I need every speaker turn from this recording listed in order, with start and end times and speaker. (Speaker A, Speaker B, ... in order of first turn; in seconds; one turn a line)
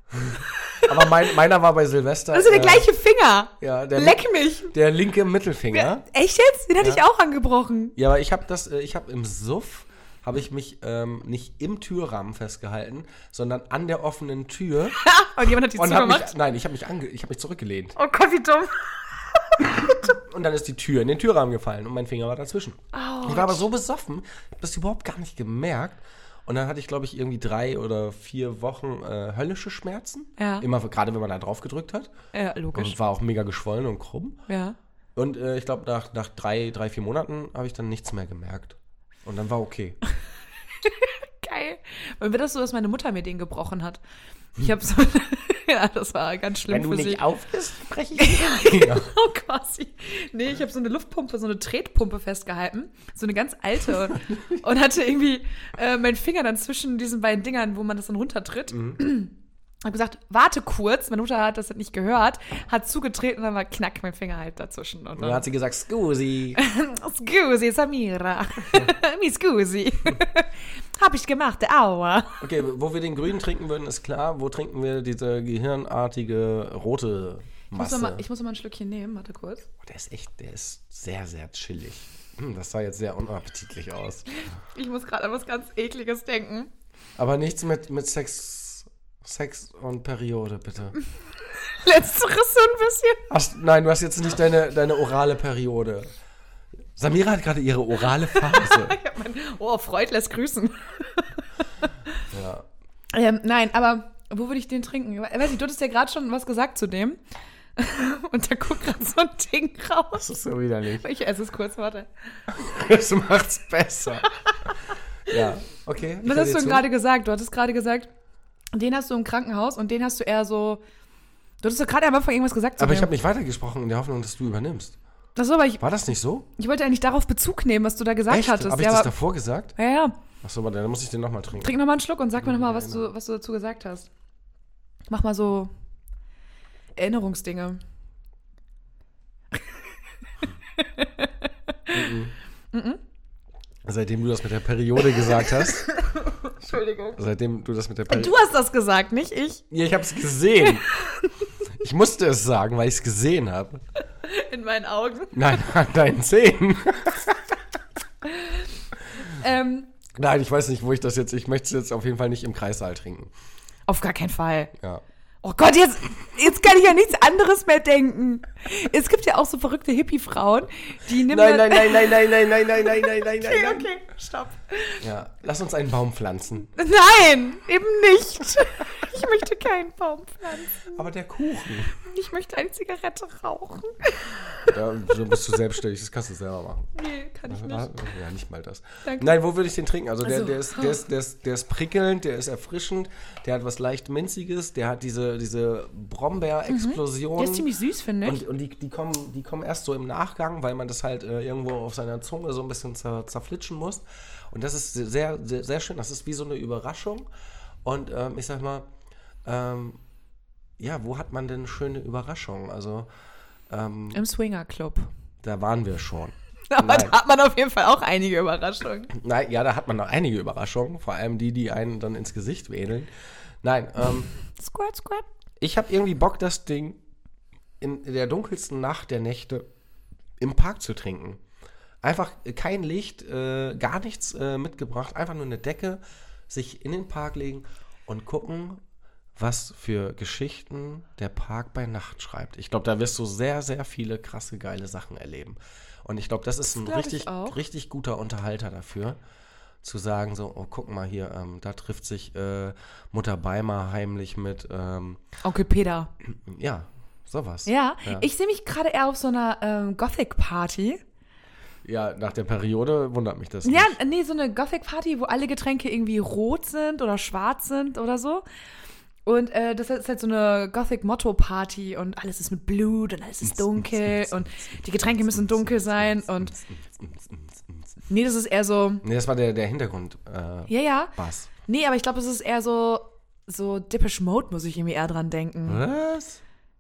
Speaker A: 0.3-1.2
Speaker B: 0.9-2.9
Speaker A: 2.3-4.7
Speaker B: 3.6-6.0
Speaker A: 5.7-8.0
Speaker B: 8.0-15.0
Speaker A: 15.0-16.3
Speaker B: 15.7-18.0
Speaker A: 18.0-20.1
Speaker B: 20.1-32.1
Speaker A: 22.9-23.7
Speaker A: 30.4-30.7
Speaker A: 32.3-33.0
Speaker B: 32.7-34.4
Speaker A: 34.5-34.8
Speaker B: 35.2-40.0
Speaker A: 40.8-44.0
Speaker A: 44.6-47.2
Speaker B: 46.7-49.1
Speaker A: 48.2-59.3
Speaker B: 58.7-59.0
Speaker A: 59.9-65.5
Speaker B: 65.2-66.6
Speaker A: 66.6-72.5
Speaker B: 72.4-78.2
Speaker A: 77.7-79.7
Speaker B: 79.8-84.3
Speaker A: 84.5-86.7
Speaker B: 87.2-91.0
Speaker A: 91.6-93.2
Speaker B: 93.3-96.1
Speaker B: 97.0-99.0
Speaker A: 98.2-101.5
Speaker B: 102.3-102.7
Speaker A: 103.1-107.2
Speaker A: 107.8-110.3
Speaker B: 110.2-111.0
Speaker A: 111.0-112.1
Speaker B: 112.5-114.3
Speaker B: 115.3-116.9
Speaker A: 116.2-118.1
Speaker A: 118.7-120.8
Speaker A: 121.6-123.1
Speaker B: 122.8-125.0
Speaker A: 125.4-125.8
Speaker B: 125.8-126.5
Speaker A: 126.6-129.1
Speaker B: 128.3-129.7
Speaker A: 129.8-130.2
Speaker B: 130.4-131.8
Speaker A: 131.6-134.1
Speaker B: 132.4-133.1
Speaker A: 135.1-135.7
Speaker A: 137.0-137.8
Speaker A: 140.8-142.0
Speaker B: 141.9-142.3
Speaker A: 142.7-143.0
Speaker B: 143.8-145.9
Speaker A: 145.3-147.2
Speaker B: 147.2-148.4
Speaker A: 148.1-149.6
Speaker B: 149.7-150.9
Speaker A: 150.7-151.3
Speaker B: 151.8-153.8
Speaker A: 154.2-155.6
Speaker B: 155.3-157.6
Speaker A: 158.2-158.7
Speaker A: 159.2-159.9
Speaker B: 160.1-163.3
Speaker A: 163.9-164.7
Speaker A: 165.4-175.0
Speaker B: 171.1-173.9
Speaker B: 175.0-176.7
Speaker A: 176.8-181.0
Speaker B: 180.8-181.9
Speaker A: 182.0-184.8
Speaker B: 184.6-186.9
Speaker A: 186.9-187.9
Speaker B: 187.5-197.7
Speaker A: 189.1-189.3
Speaker A: 190.2-191.0
Speaker A: 196.7-198.4
Speaker B: 198.2-207.3
Speaker B: 207.8-208.9
Speaker B: 209.4-210.0
Speaker B: 210.8-213.1
Speaker B: 213.7-214.2
Speaker A: 214.1-215.1
Speaker B: 215.4-217.2
Speaker A: 216.7-219.1
Speaker B: 219.1-223.1
Speaker B: 223.6-224.3
Speaker A: 224.5-225.3
Speaker B: 225.6-227.0
Speaker B: 227.8-229.7
Speaker B: 230.4-231.4
Speaker B: 232.0-238.8
Speaker B: 239.4-249.2
Speaker A: 246.7-247.6
Speaker B: 249.8-255.2
Speaker A: 255.4-256.1
Speaker B: 256.3-258.3
Speaker A: 257.7-261.0
Speaker B: 261.8-264.0
Speaker A: 263.6-268.4
Speaker A: 269.3-276.6
Speaker B: 273.4-277.9
Speaker A: 278.1-279.0
Speaker B: 279.0-281.5
Speaker A: 280.7-285.8
Speaker B: 285.7-286.4